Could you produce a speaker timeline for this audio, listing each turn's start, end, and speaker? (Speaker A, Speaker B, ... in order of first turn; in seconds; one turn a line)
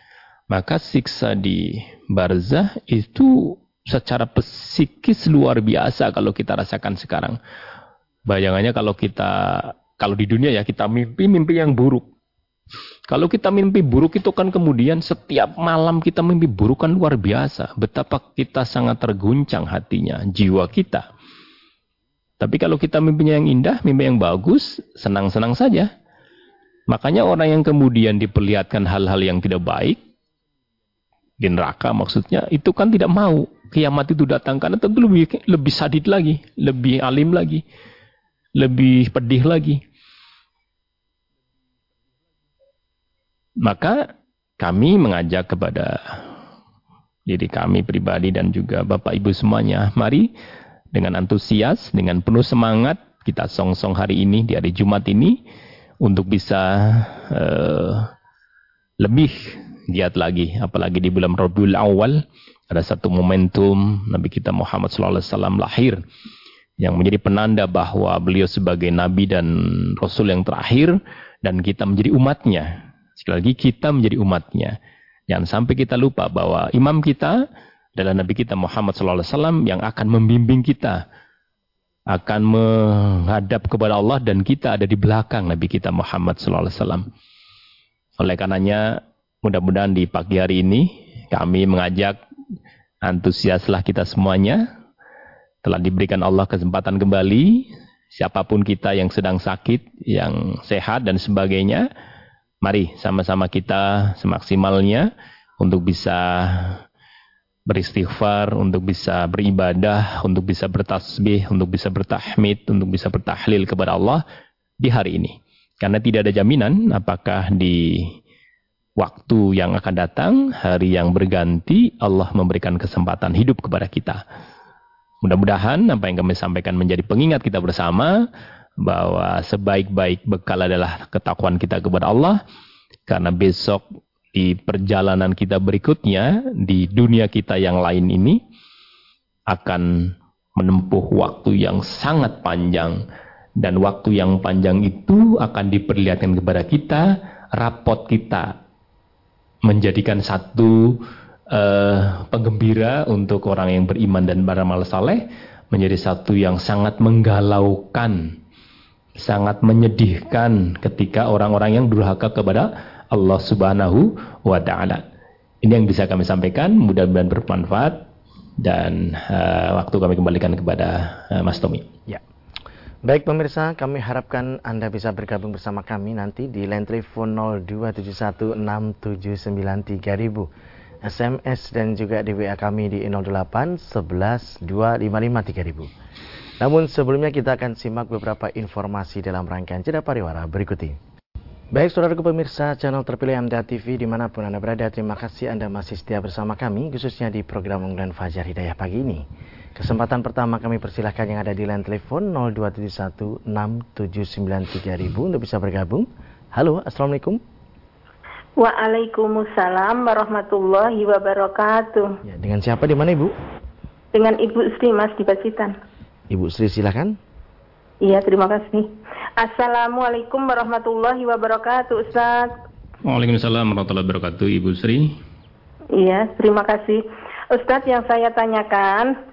Speaker A: 0.5-7.4
Speaker A: 8.3-12.1
Speaker A: 13.1-21.1
Speaker A: 22.4-25.9
Speaker A: 26.9-30.0
Speaker A: 31.4-37.6
Speaker A: 38.6-39.8
Speaker A: 43.6-44.1
Speaker A: 44.6-46.2
Speaker A: 47.3-50.3
Speaker A: 50.9-55.4
Speaker A: 56.0-58.1
Speaker A: 59.0-66.0
Speaker A: 66.8-74.8
Speaker A: 75.3-77.4
Speaker A: 78.0-81.0
Speaker A: 82.1-87.1
Speaker A: 88.2-92.2
Speaker A: 93.0-94.6
Speaker A: 95.6-101.9
Speaker A: 102.6-106.8
Speaker A: 107.7-114.2
Speaker A: 114.8-118.2
Speaker A: 119.0-124.2
Speaker A: 125.2-128.3
Speaker A: 128.8-132.4
Speaker A: 133.1-133.8
Speaker A: 134.3-138.4
Speaker A: 139.5-143.0
Speaker A: 143.6-148.5
Speaker A: 149.7-151.0
Speaker A: 151.5-158.3
Speaker A: 159.2-165.0
Speaker A: 165.6-168.0
Speaker A: 168.6-171.9
Speaker B: 173.0-180.5
Speaker B: 181.0-185.9
Speaker B: 186.6-191.0
Speaker B: 191.7-199.2
Speaker B: 199.8-207.4
Speaker C: 208.6-212.2
Speaker B: 212.2-213.3
Speaker C: 214.1-215.7
Speaker B: 216.3-217.2
Speaker C: 218.0-222.5
Speaker A: 223.0-225.2
Speaker C: 225.9-229.1